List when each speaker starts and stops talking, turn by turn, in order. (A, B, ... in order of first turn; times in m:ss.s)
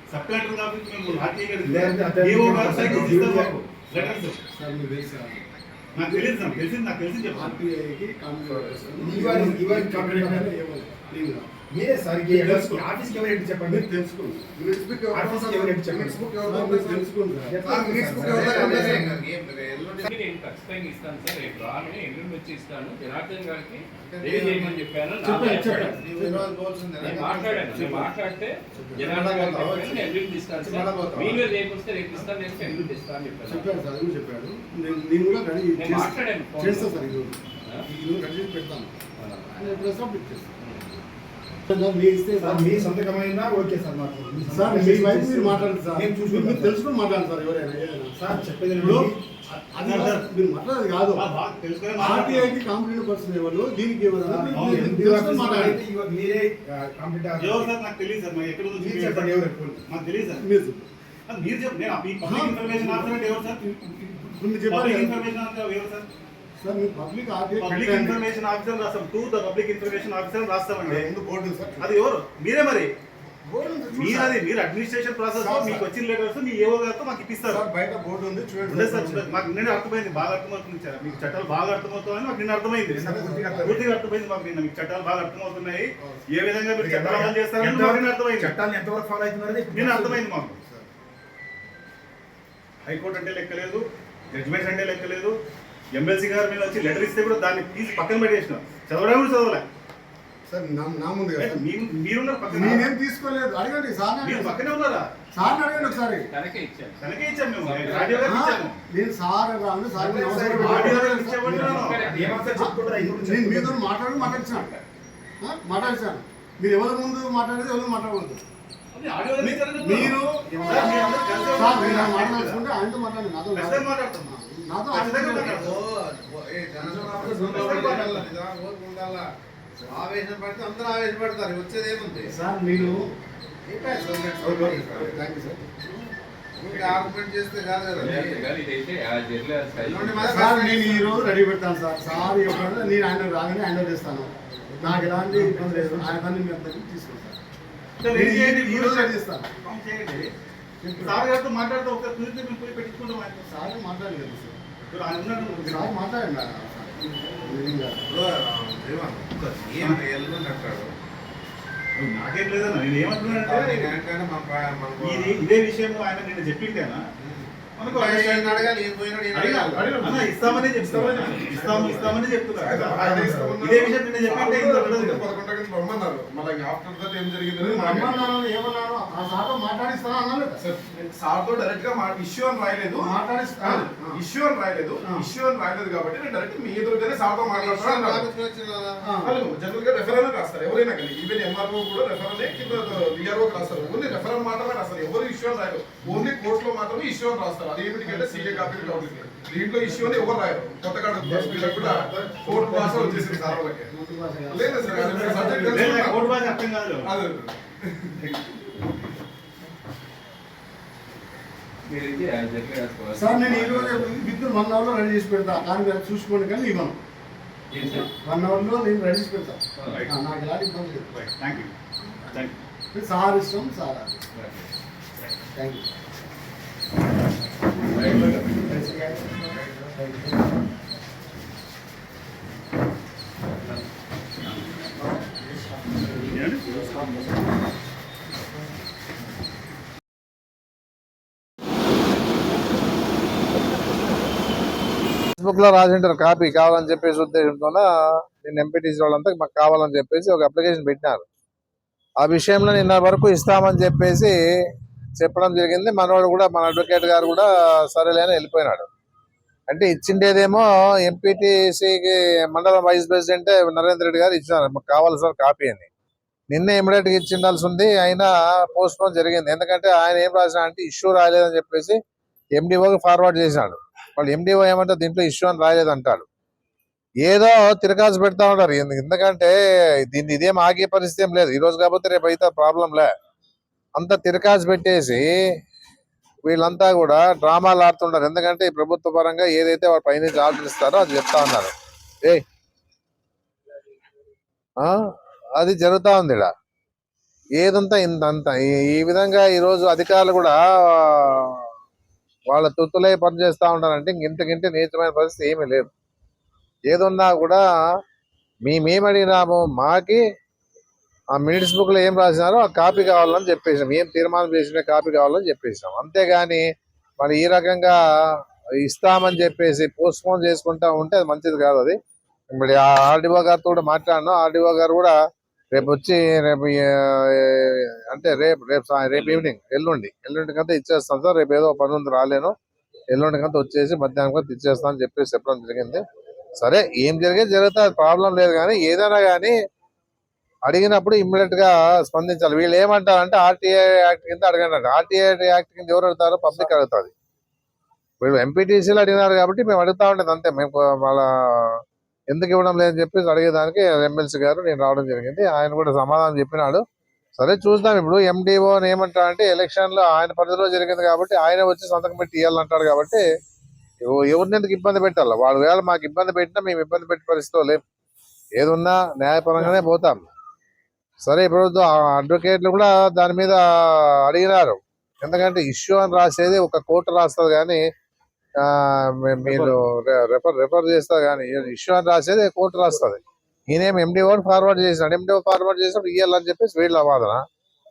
0:00.1-0:04.4 A
0:01.6-0:03.6 B
0:02.8-0:03.2 C
0:04.5-0:05.4 D
0:05.9-0:07.6 A
0:06.0-0:06.6 D
0:07.3-0:11.5 D
0:08.5-0:08.9 E
0:09.0-0:10.5 B
0:11.7-0:13.8 B
0:12.3-0:12.8 D
0:13.6-0:14.5 D
0:14.6-0:16.8 B
0:14.7-0:17.0 E
0:16.4-0:17.8 D
0:17.5-0:19.2 B
0:17.7-0:18.4 E
0:18.1-0:20.1 C
0:20.0-0:26.0 F
0:24.0-0:24.8 C
0:25.2-0:26.5 D
0:25.8-0:28.1 C
0:27.0-0:33.7 F
0:28.8-0:29.1 D
0:29.0-0:31.4 C
0:33.4-0:38.9 D
0:35.8-0:37.0 F
0:39.2-0:39.5 F
0:39.5-0:41.0 D
0:41.7-0:42.9 D
0:42.4-0:46.8 B
0:44.4-0:51.3 D
0:48.2-0:49.1 B
0:48.8-0:49.1 A
0:49.8-0:50.3 A
0:51.1-0:52.6 A
0:52.0-0:55.8 D
0:54.2-0:57.7 B
0:54.5-0:54.9 A
0:57.4-1:00.4 A
0:58.8-0:59.8 B
1:00.4-1:00.9 D
1:01.3-1:03.7 A
1:02.2-1:03.2 D
1:03.8-1:05.2 D
1:04.7-1:06.1 A
1:06.6-1:08.2 D
1:07.6-1:11.1 A
1:10.8-1:11.9 D
1:11.8-1:12.9 A
1:13.4-1:14.4 D
1:13.9-1:17.6 A
1:15.3-1:15.8 D
1:17.4-1:19.3 D
1:18.6-1:28.6 A
1:21.0-1:21.4 D
1:22.9-1:23.8 D
1:23.0-1:23.9 B
1:26.8-1:30.2 B
1:29.7-1:30.6 A
1:32.8-1:35.4 A
1:36.0-1:39.6 A
1:40.5-1:41.6 D
1:41.4-1:42.9 A
1:42.5-1:44.6 D
1:44.2-1:45.1 A
1:45.3-1:46.3 D
1:45.6-1:48.4 F
1:47.0-1:48.8 A
1:48.2-1:52.0 D
1:50.0-1:51.2 B
1:50.7-1:52.0 A
1:51.6-1:52.5 F
1:51.9-1:53.9 B
1:52.5-1:54.7 D
1:54.4-1:54.8 F
1:55.4-1:58.4 D
1:58.9-2:02.6 A
1:59.4-2:05.6 D
2:03.5-2:04.4 A
2:04.9-2:05.8 A
2:05.4-2:09.3 C
2:06.8-2:07.9 E
2:07.2-2:08.3 A
2:09.8-2:10.0 D
2:09.9-2:12.3 C
2:12.2-2:13.1 D
2:13.6-2:15.2 C
2:14.4-2:15.7 D
2:16.6-2:18.4 C
2:18.0-2:20.4 F
2:19.8-2:21.2 C
2:20.2-2:27.4 D
2:28.0-2:30.3 A
2:28.1-2:29.5 D
2:30.8-2:31.3 D
2:31.0-2:33.5 A
2:33.5-2:34.6 D
2:34.9-2:36.0 A
2:35.4-2:38.1 D
2:38.0-2:40.9 C
2:42.0-2:43.9 A
2:43.2-2:45.4 C
2:45.0-2:47.0 A
2:47.2-2:50.0 C
2:47.8-2:48.7 A
2:49.3-2:52.9 A
2:49.8-2:58.3 E
2:52.9-2:53.6 D
2:53.6-2:55.3 A
2:57.6-3:00.6 D
3:00.6-3:08.3 E
3:03.0-3:04.2 D
3:05.0-3:05.3 D
3:07.4-3:09.1 C
3:09.0-3:09.4 D
3:09.2-3:23.9 E
3:18.0-3:20.4 D
3:21.2-3:25.9 D
3:24.5-3:26.4 E
3:24.9-3:27.2 A
3:27.0-3:28.3 E
3:31.9-3:34.1 F
3:33.1-3:37.0 D
3:37.7-3:38.1 F
3:37.8-3:41.1 D
3:39.8-3:40.0 F
3:39.9-3:40.1 A
3:41.1-3:41.7 A
3:42.3-3:42.6 A
3:42.9-3:44.2 D
3:44.3-3:44.7 F
3:45.5-3:45.9 D
3:48.0-3:48.4 F
3:48.8-3:50.2 D
3:56.3-3:56.8 A
4:05.4-4:11.2 C
4:12.2-4:14.3 C
4:15.2-4:18.9 C
4:19.7-4:25.9 C
4:26.5-4:32.0 C
4:32.5-4:36.2 C
4:37.2-4:39.5 C
4:40.1-4:43.0 C
4:44.0-4:45.2 C
4:46.4-4:51.7 C
4:55.6-4:56.5 C
4:57.6-5:01.6 C
5:02.5-5:05.9 C
5:06.9-5:07.6 C
5:08.6-5:10.2 C
5:11.3-5:16.6 C
5:17.2-5:18.0 C
5:18.8-5:22.0 C
5:22.5-5:25.1 C
5:25.7-5:32.5 C
5:33.1-5:36.0 C
5:36.6-5:39.5 C
5:40.7-5:47.1 C
5:48.2-5:56.8 C
5:57.4-6:03.2 C
6:04.0-6:07.8 C
6:08.6-6:10.2 C
6:11.2-6:17.8 C
6:18.6-6:23.2 C
6:19.4-6:19.7 A
6:23.7-6:27.4 C